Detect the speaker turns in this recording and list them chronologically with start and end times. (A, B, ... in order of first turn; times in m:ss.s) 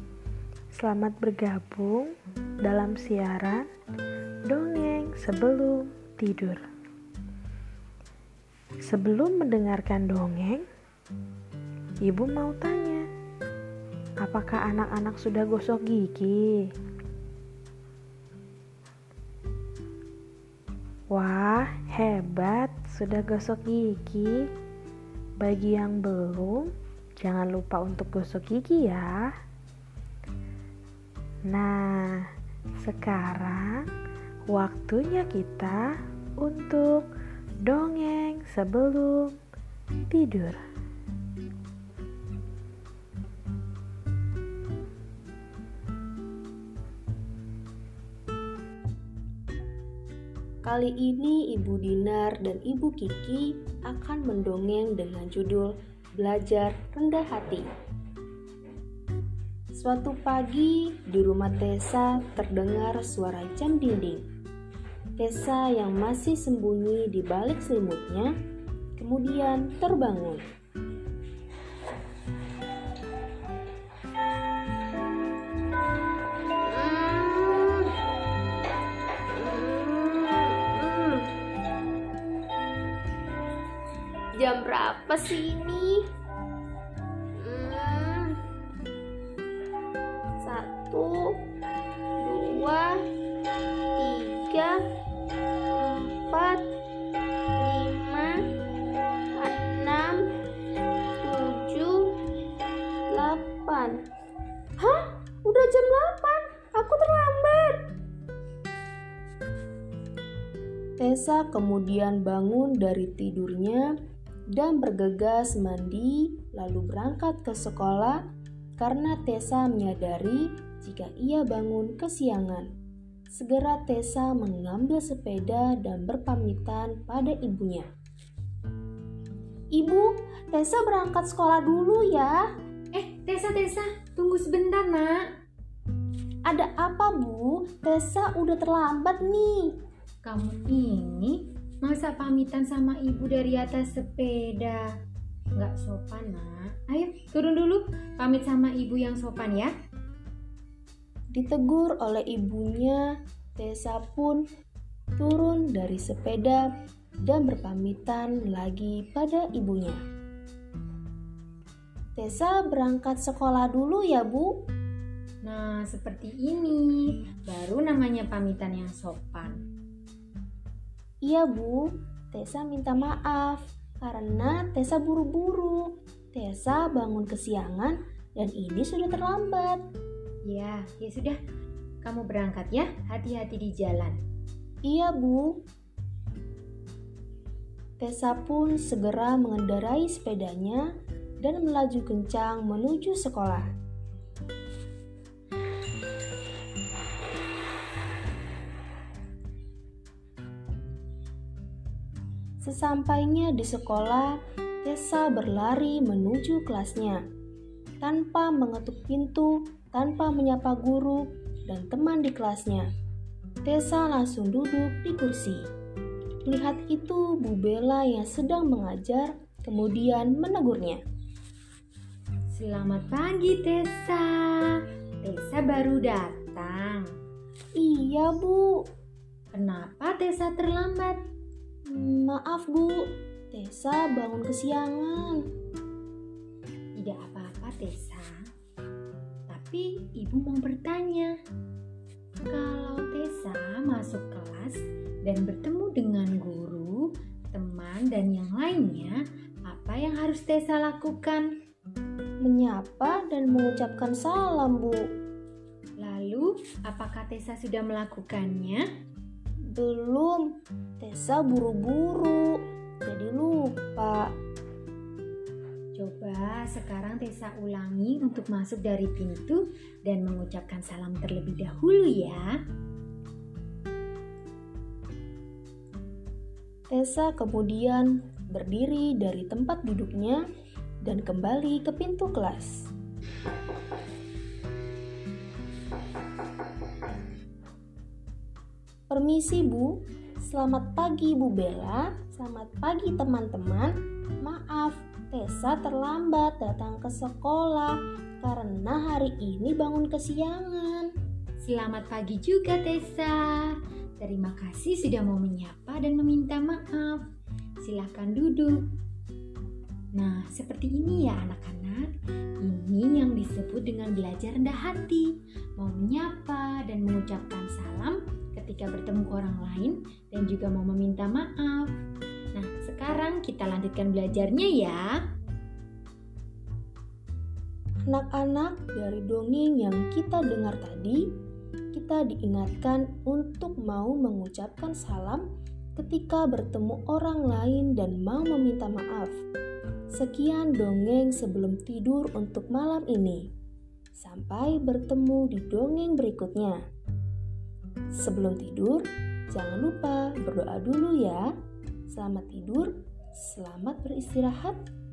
0:00.7-0:02.1 A
0:02.6-0:03.6 A
0:04.5-0:06.6 A
0:08.8-0:10.6 A
0:12.0-0:13.0 A
0:14.2-0:16.5 A
0:21.1-0:24.4 A
0:25.4-0:29.2 A
0:31.5-0:32.2 A
0:32.8-0:33.9 A
0:34.5-0:35.8 A
0:36.4-0:37.0 A
0:37.7-0:39.4 A
0:40.1-0:40.6 A
0:50.6-0:57.6 B
0:59.8-1:04.2 B
1:05.2-1:08.3 B
1:09.0-1:10.4 B
1:16.7-1:17.9 C
1:19.4-1:21.2 C
1:24.4-1:26.0 C
1:27.4-1:28.3 C
1:30.4-1:31.1 C
1:32.2-1:32.9 C
1:34.0-1:34.7 C
1:35.8-1:36.6 C
1:37.6-1:38.3 C
1:39.4-1:40.2 C
1:41.2-1:42.0 C
1:43.1-1:43.9 C
1:44.8-1:47.8 B
1:51.0-1:53.8 B
1:54.5-1:58.2 B
1:58.8-2:02.6 B
2:03.3-2:07.8 B
2:09.8-2:12.3 B
2:12.9-2:15.2 D
2:16.5-2:19.7 B
2:20.2-2:24.8 D
2:25.6-2:29.7 D
2:31.3-2:33.0 B
2:33.6-2:34.4 B
2:35.2-2:36.6 B
2:37.2-2:40.0 B
2:42.2-2:44.5 B
2:45.4-2:49.6 D
2:51.2-2:51.8 B
2:52.3-2:59.8 B
3:00.5-3:01.4 D
3:02.0-3:04.2 D
3:04.9-3:05.5 B
3:08.0-3:10.8 B
3:11.4-3:13.6 B
3:22.6-3:27.2 B
3:28.0-3:32.8 B
3:33.7-3:35.6 B
3:36.4-3:41.0 B
3:42.5-3:47.1 D
3:47.8-3:48.7 B
3:49.5-3:51.2 D
3:51.9-3:52.9 B
3:53.5-3:55.4 B
3:57.0-3:58.3 D
3:59.5-4:01.3 D
4:02.5-4:09.2 D
4:09.7-4:11.4 D
4:12.4-4:15.0 B
4:16.0-4:18.8 D
4:19.8-4:20.4 B
4:21.0-4:24.3 B
4:26.0-4:32.4 D
4:36.9-4:40.4 B
4:41.0-4:42.7 B
4:49.1-4:49.9 B
4:50.5-4:53.9 B
4:54.4-5:01.1 B
5:01.6-5:07.2 D
5:07.8-5:08.8 D
5:10.1-5:21.9 D
5:22.5-5:25.0 D
5:28.1-5:31.2 B
5:31.9-5:35.4 B
5:36.0-5:39.3 B
5:40.2-5:43.4 B
5:44.2-5:46.8 B
5:48.2-5:51.4 B
5:52.1-5:52.9 B
5:53.4-5:54.8 B